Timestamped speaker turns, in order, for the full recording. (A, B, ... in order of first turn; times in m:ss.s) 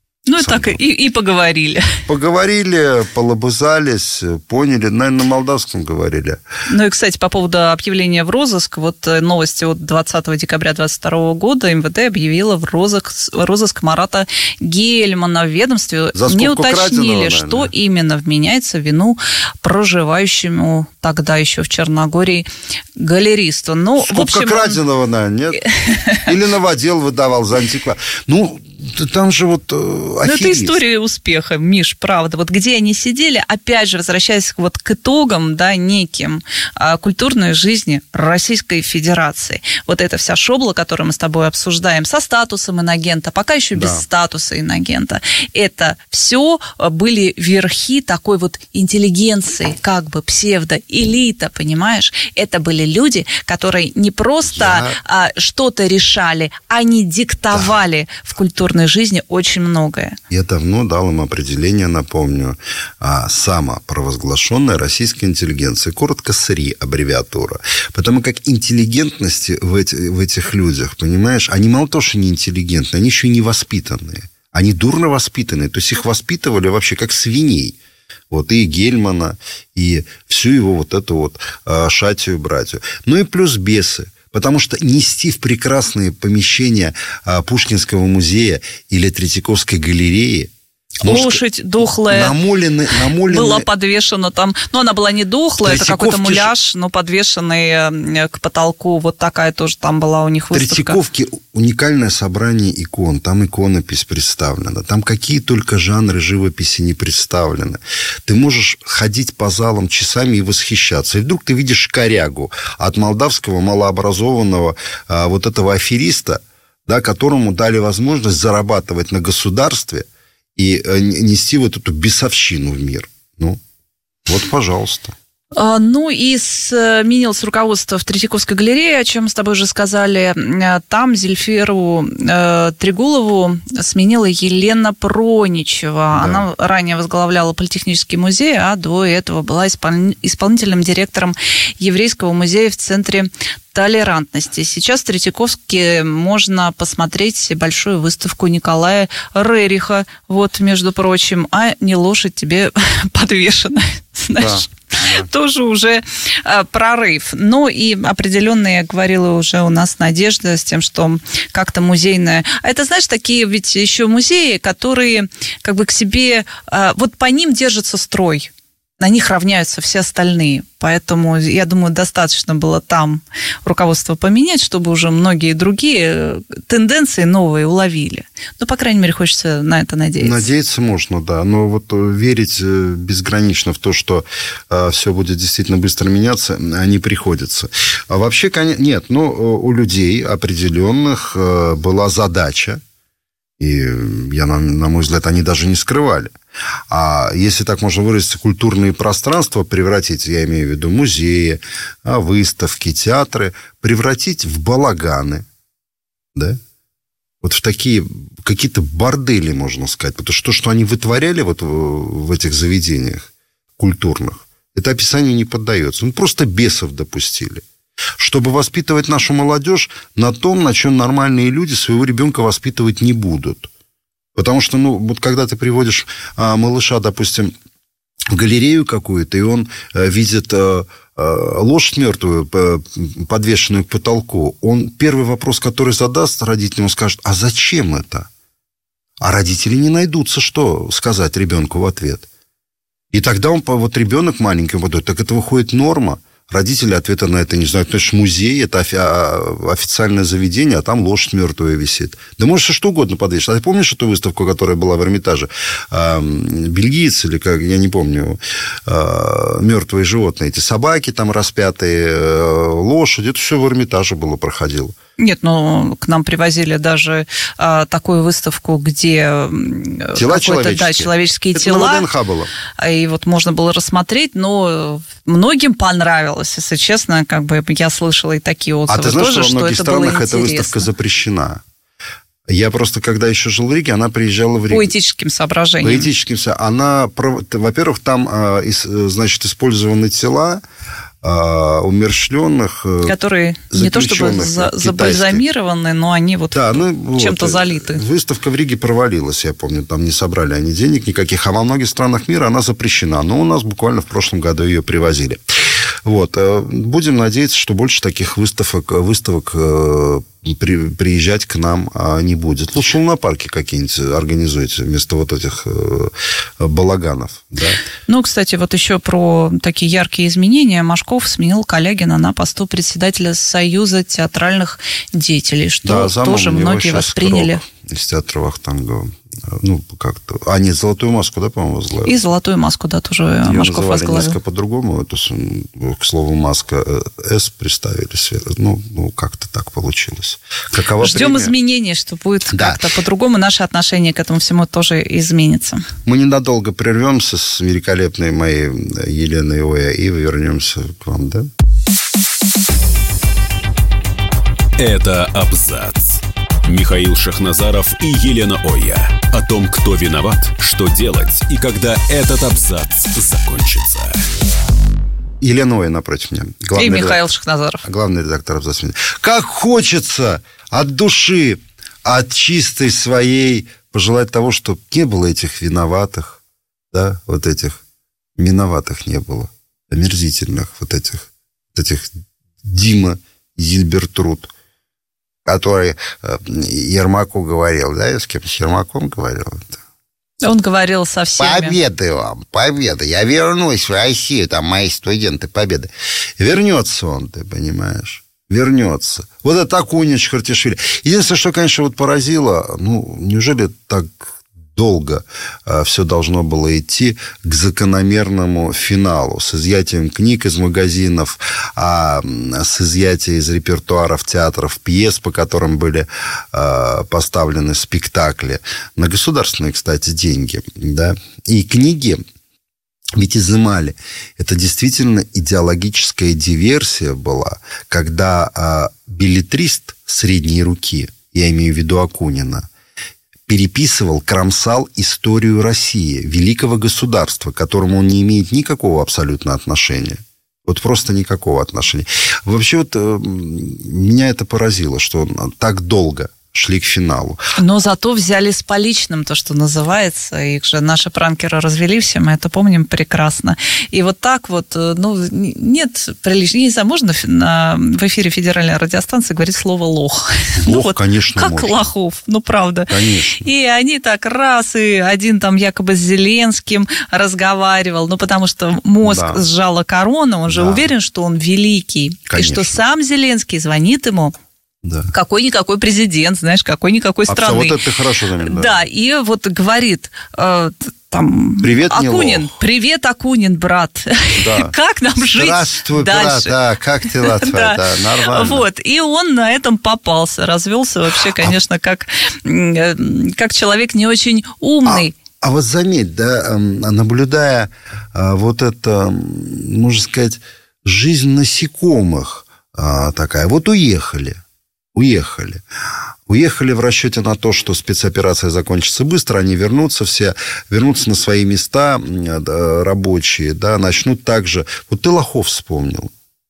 0:00.3-0:02.0 A
0:00.4-0:00.8 B
0:02.1-0:06.4 B
0:06.7-0:24.8 A
0:16.1-0:17.7 B
0:24.0-0:25.6 B
0:25.8-0:26.2 A
0:26.2-0:30.8 B
0:30.2-1:00.2 A
0:43.7-0:44.0 B
0:54.4-0:55.0 B
1:00.3-1:17.8 B
1:18.3-1:30.5 B
1:31.0-1:31.4 B
1:31.0-1:32.4 A
1:32.1-1:33.7 B
1:33.2-1:41.0 A
1:35.6-1:36.5 B
1:40.5-2:03.6 B
2:04.2-2:05.2 B
2:05.6-3:00.5 A
2:16.1-2:16.4 B
2:34.4-2:35.3 B
3:00.2-3:12.8 B
3:13.6-3:16.3 B
3:16.9-3:25.5 B
3:26.3-3:26.6 B
3:27.4-3:37.6 B
3:38.2-3:43.7 B
3:44.3-3:47.5 B
3:48.3-3:58.3 B
3:59.2-4:02.2 B
4:03.1-4:25.0 B
4:25.2-4:32.1 A
4:30.1-4:32.5 B
4:32.8-4:40.9 A
4:38.9-4:41.6 B
4:42.5-4:44.9 B
4:44.7-4:46.1 A
4:45.8-4:50.6 B
4:51.2-4:53.2 B
4:53.0-4:58.0 A
4:53.7-4:55.4 B
4:56.5-5:05.4 B
5:06.0-5:17.8 B
5:18.1-5:27.6 A
5:25.8-5:32.1 B
5:32.0-5:34.4 A
5:33.4-5:41.5 B
5:41.0-5:45.8 A
5:42.5-5:42.8 B
5:46.0-5:51.5 B
5:54.8-6:04.2 C
6:05.4-6:07.2 B
6:06.7-6:07.8 A
6:07.8-6:16.4 B
6:16.9-6:17.8 B
6:18.4-6:22.1 B
6:22.6-6:24.5 B
6:25.4-6:29.8 B
6:30.4-6:31.8 A
6:31.4-7:02.2 B
7:03.2-7:12.7 B
7:13.5-7:27.4 B
7:27.6-7:54.3 A
7:40.6-7:41.9 B
7:42.9-7:43.4 B
7:49.0-7:49.4 B
7:50.5-7:50.9 B
7:52.3-7:52.8 B
7:54.8-7:55.1 B
7:55.1-7:57.8 A
7:57.3-7:58.7 B
7:58.4-8:15.1 A
8:01.6-8:02.6 B
8:04.4-8:08.6 B
8:11.3-8:11.6 B
8:14.8-8:24.4 B
8:24.9-8:25.6 B
8:26.3-8:36.1 B